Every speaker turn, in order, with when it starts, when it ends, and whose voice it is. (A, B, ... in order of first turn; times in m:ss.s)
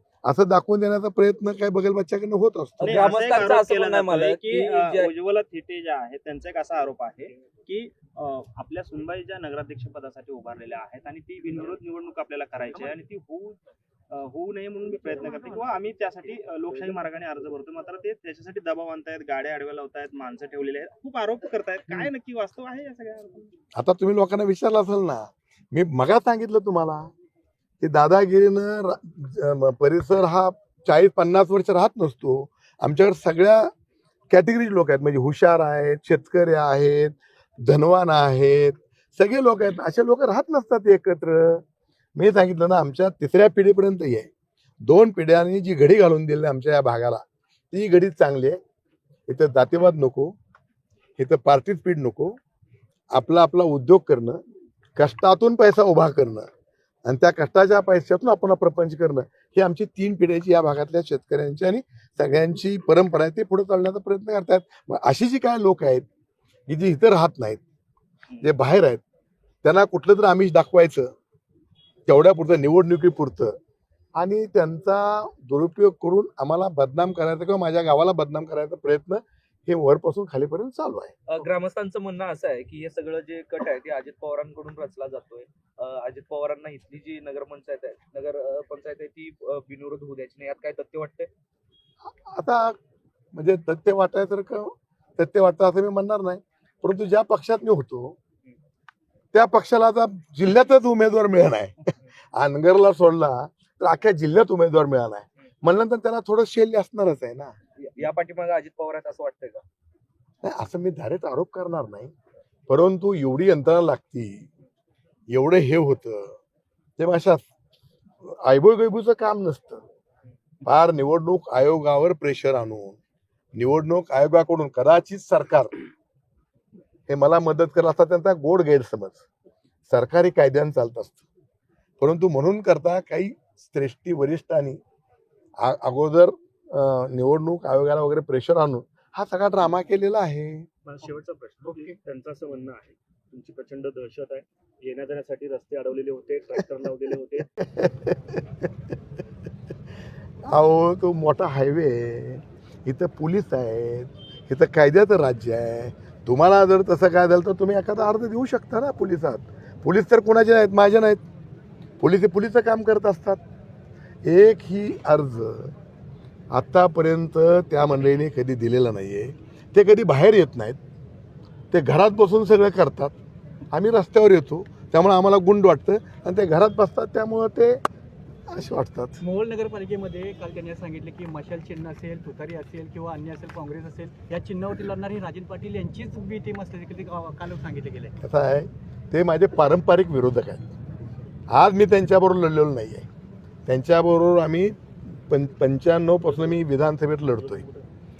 0:00.2-0:03.4 A
0:02.8-0:05.1 B
0:02.8-0:13.6 C
0:14.1-0:23.5 C
0:23.8-0:27.1 A
0:27.8-0:33.7 A
0:34.3-0:41.6 A
0:42.2-0:44.3 A
0:44.8-0:48.6 A
0:49.3-0:50.3 A
0:51.2-0:52.4 A
0:53.1-0:54.4 A
0:55.0-0:56.5 A
0:57.0-1:06.0 A
1:06.7-1:07.6 A
1:08.4-1:09.0 A
1:09.6-1:11.1 A
1:12.1-1:13.6 A
1:14.2-1:21.1 A
1:21.3-1:31.3 B
1:32.0-1:32.8 A
1:33.3-1:38.2 A
1:39.3-1:47.5 A
1:47.8-1:49.6 B
1:50.4-1:52.1 A
1:52.7-1:54.5 A
1:55.3-1:56.4 A
1:57.0-1:57.5 A
1:58.2-1:59.8 A
2:00.6-2:03.0 A
2:03.6-2:05.7 A
2:07.1-2:09.2 A
2:09.9-2:11.2 A
2:12.0-2:14.8 A
2:15.6-2:20.7 A
2:20.8-2:27.5 D
2:27.6-2:28.4 A
2:30.5-2:41.2 A
2:42.0-2:43.4 A
2:44.2-2:45.7 A
2:46.5-2:50.8 A
2:51.7-2:53.2 A
2:53.7-2:57.8 A
2:58.5-2:59.2 A
2:59.2-3:08.1 E
3:08.2-3:10.7 A
3:11.5-3:13.1 A
3:13.6-3:17.6 A
3:17.4-3:17.8 D